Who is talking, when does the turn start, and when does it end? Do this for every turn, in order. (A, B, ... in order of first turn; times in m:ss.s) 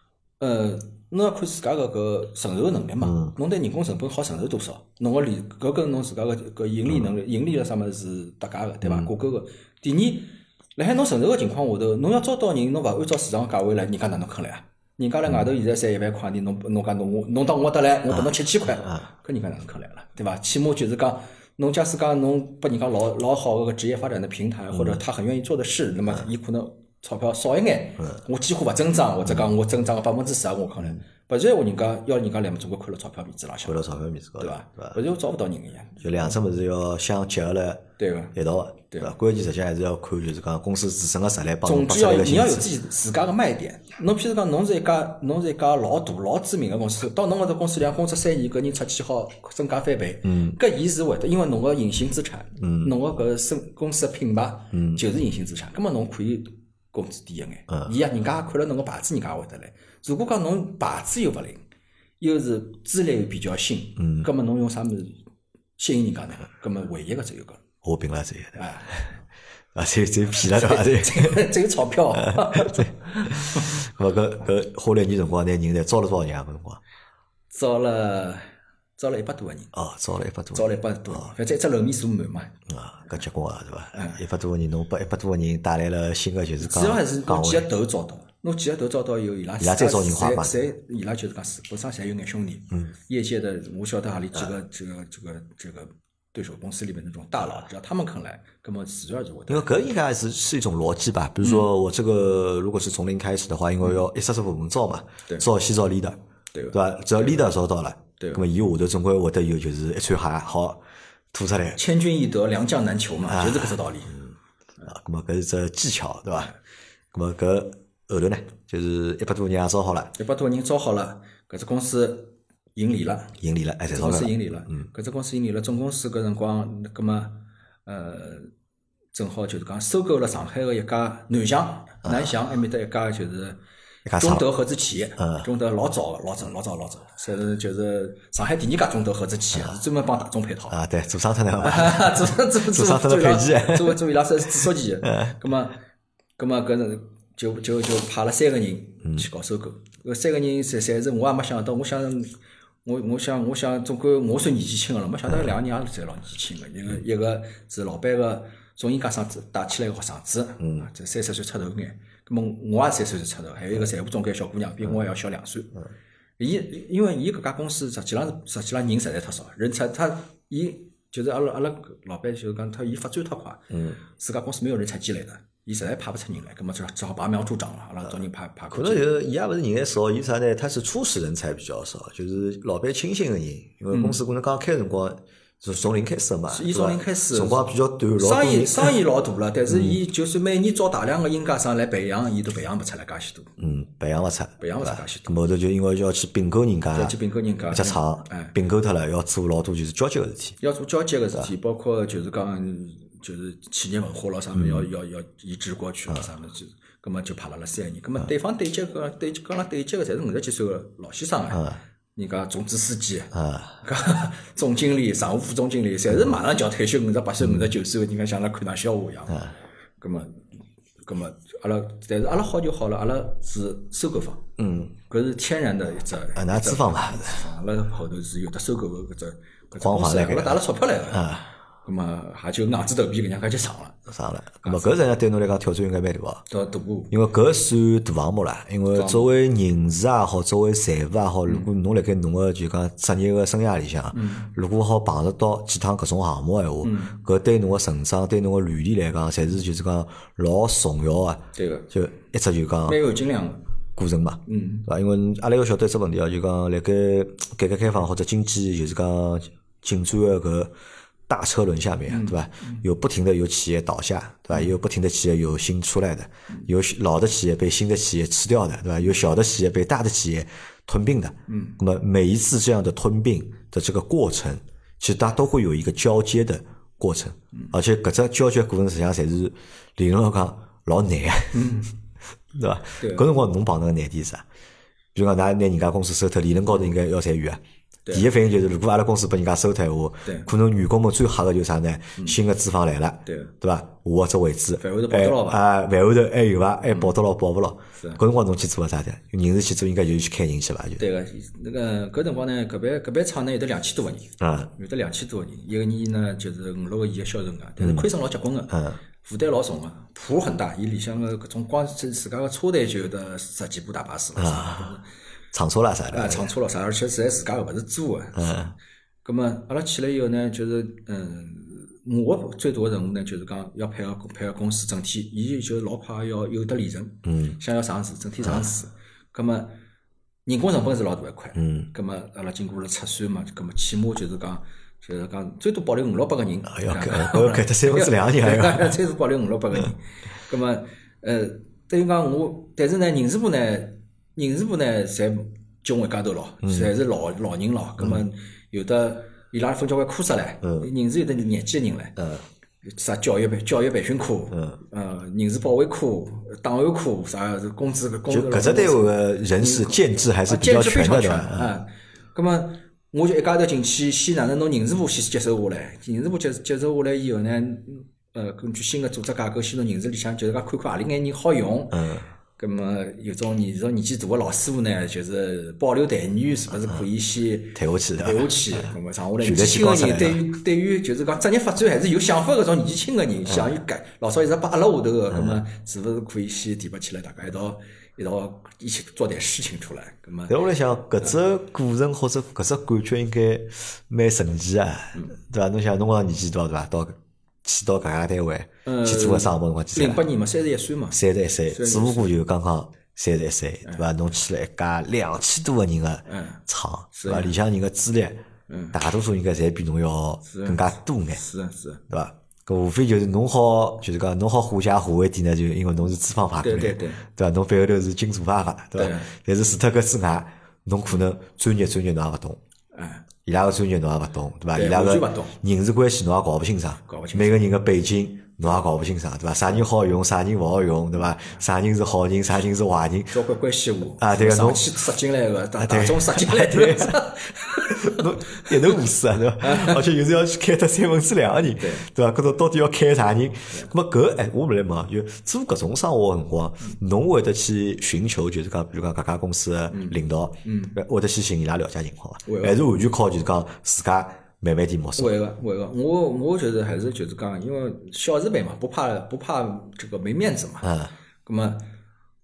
0:00.4-0:36.3 A
0:03.0-0:03.3 B
0:08.8-0:09.1 B
0:24.7-0:25.0 B
0:33.6-0:35.0 B
0:36.0-0:42.7 B
0:38.0-0:38.4 A
0:41.6-1:01.6 A
0:50.2-0:50.6 B
0:52.6-0:52.9 B
0:54.7-0:55.0 B
1:02.2-1:05.2 A
1:04.0-1:04.3 B
1:05.8-1:07.6 A
1:07.8-1:08.7 B
1:08.5-1:09.1 A
1:09.7-1:11.5 B
1:10.4-1:13.8 A
1:12.2-1:16.8 B
1:17.5-1:18.4 A
1:19.0-1:19.7 A
1:19.7-1:21.2 B
1:20.5-1:22.6 A
1:22.7-1:27.7 B
1:23.9-1:24.2 A
1:26.6-1:39.8 A
1:29.6-1:30.5 B
1:39.5-1:46.2 B
1:41.4-1:41.7 A
1:46.5-1:47.4 A
1:46.7-1:50.8 B
1:48.2-1:48.4 A
1:51.3-1:51.8 B
1:51.8-1:54.3 A
1:53.3-1:53.8 B
1:54.9-1:56.5 B
1:57.1-2:00.1 B
2:00.2-2:03.4 A
2:03.4-2:04.8 B
2:03.9-2:08.5 A
2:09.1-2:13.6 A
2:14.0-2:14.4 B
2:14.2-2:20.8 A
2:15.2-2:15.4 B
2:20.7-2:24.0 B
2:21.6-2:25.8 A
2:25.0-2:25.4 B
2:26.4-2:32.3 A
2:32.8-2:45.8 A
2:46.4-2:59.1 A
2:53.7-2:54.0 B
2:58.7-3:09.0 B
3:03.9-3:04.2 A
3:06.5-3:13.5 A
3:09.7-3:10.0 B
3:13.6-3:17.1 B
3:14.6-3:15.4 A
3:16.9-3:18.5 A
3:17.7-3:20.6 B
3:20.6-3:40.4 A
3:24.5-3:24.9 B
3:31.5-3:31.8 B
3:33.3-3:33.8 B
3:37.4-3:37.7 B
3:41.0-3:44.5 A
3:44.6-3:44.9 B
3:45.0-3:51.3 A
3:46.3-3:47.4 B
3:49.8-3:51.5 B
3:51.8-3:54.0 A
3:54.1-3:56.4 B
3:54.6-3:55.0 A
3:56.5-3:57.1 A
3:57.1-4:13.0 B
3:58.9-3:59.3 A
4:04.1-4:04.5 A
4:06.8-4:07.2 A
4:11.6-4:11.9 A
4:12.8-4:13.6 A
4:14.0-4:20.7 B
4:14.5-4:14.9 A
4:21.3-4:41.7 B
4:22.1-4:22.8 A
4:31.5-4:31.8 A
4:41.5-4:41.9 A
4:42.5-4:44.4 B
4:43.0-4:43.3 A
4:45.1-4:47.6 B
4:48.1-5:01.0 B
4:53.2-4:53.5 A
4:54.8-4:55.6 A
4:56.9-4:57.1 A
5:01.0-5:15.0 A
5:04.4-5:04.7 B
5:07.8-5:08.1 B
5:08.7-5:09.0 B
5:14.4-5:15.0 B
5:15.5-5:16.5 B
5:16.1-5:18.6 A
5:18.4-5:18.7 B
5:19.2-5:29.8 A
5:27.2-5:27.6 B
5:30.4-5:52.2 A
5:31.6-5:31.9 B
5:36.7-5:39.0 B
5:46.6-5:46.9 B
5:50.6-5:50.9 B
5:52.2-5:52.4 B
5:52.9-6:12.1 A
5:54.5-5:54.8 B
5:58.3-6:01.7 B
6:11.9-6:12.3 B
6:12.6-6:30.6 A
6:17.7-6:20.4 B
6:23.5-6:23.7 B
6:25.3-6:25.6 B
6:30.5-6:40.2 B
6:35.1-6:35.4 A
6:38.8-6:42.3 A
6:41.1-6:48.4 B
6:46.3-6:46.6 A
6:47.1-6:47.5 A
6:48.7-6:49.0 A
6:48.9-6:51.4 B
6:50.4-6:52.0 A
6:52.1-7:02.6 B
6:56.6-6:57.2 A
6:59.0-6:59.3 A
7:02.9-7:03.2 A
7:03.4-7:13.4 B
7:04.7-7:05.5 A
7:07.1-7:07.6 A
7:13.3-7:19.0 A
7:14.2-7:15.0 B
7:15.8-7:17.2 B
7:17.8-7:35.3 B
7:19.6-7:20.0 A
7:21.8-7:22.1 A
7:29.9-7:31.0 A
7:32.4-7:32.8 A
7:35.2-7:40.9 A
7:40.8-7:41.1 B
7:41.4-7:41.9 A